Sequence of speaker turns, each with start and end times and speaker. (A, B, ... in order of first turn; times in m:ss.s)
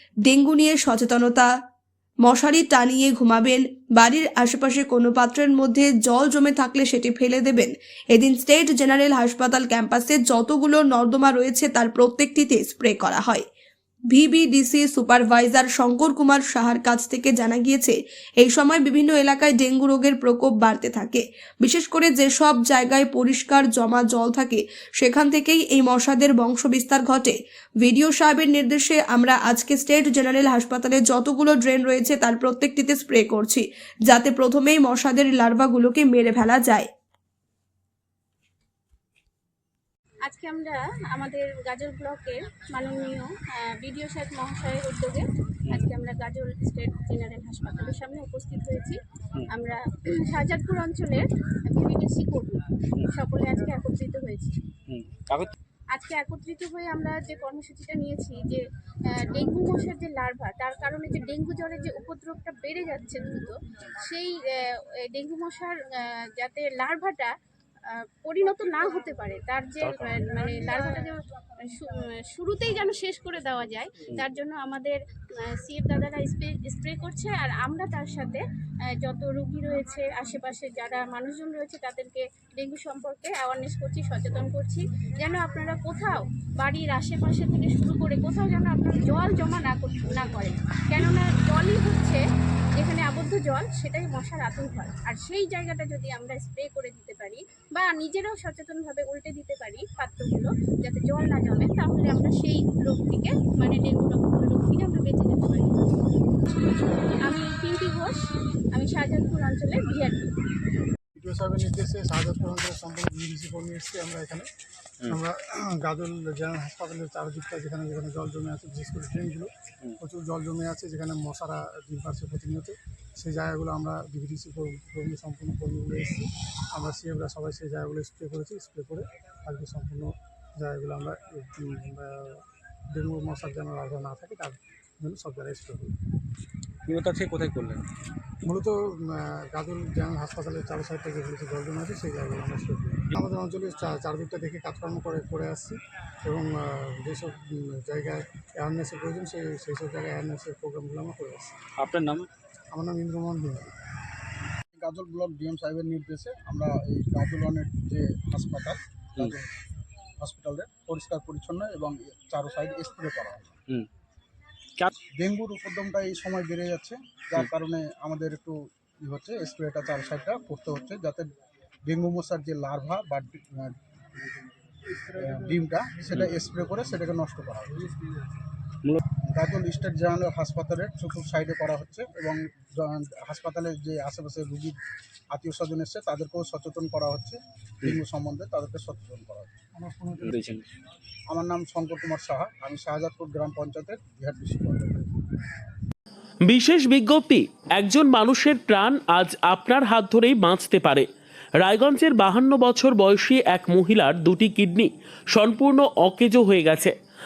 0:00.3-0:01.5 A
0:02.2-0:13.4 A
0:14.1-0:36.9 A
0:40.3-0:54.6 B
0:54.9-0:55.5 C
0:55.9-1:07.3 B
1:07.9-1:18.4 B
1:09.9-1:10.2 C
1:18.9-1:32.2 B
1:32.8-1:45.8 B
1:46.4-1:48.2 B
1:48.7-1:50.3 B
1:51.2-1:54.5 D
1:55.0-2:16.0 D
2:16.9-2:17.8 C
2:18.5-2:31.6 D
2:31.8-2:32.3 C
2:32.7-2:33.7 D
2:34.8-2:39.4 E
2:40.2-2:43.6 E
2:45.2-2:51.3 E
2:51.9-2:53.7 E
2:55.2-2:57.8 E
2:59.3-3:04.8 E
3:05.3-3:07.4 E
3:07.9-3:09.5 E
3:09.8-3:10.4 D
3:10.2-3:10.6 C
3:11.3-3:15.0 E
3:16.4-3:21.1 F
3:21.6-3:26.9 F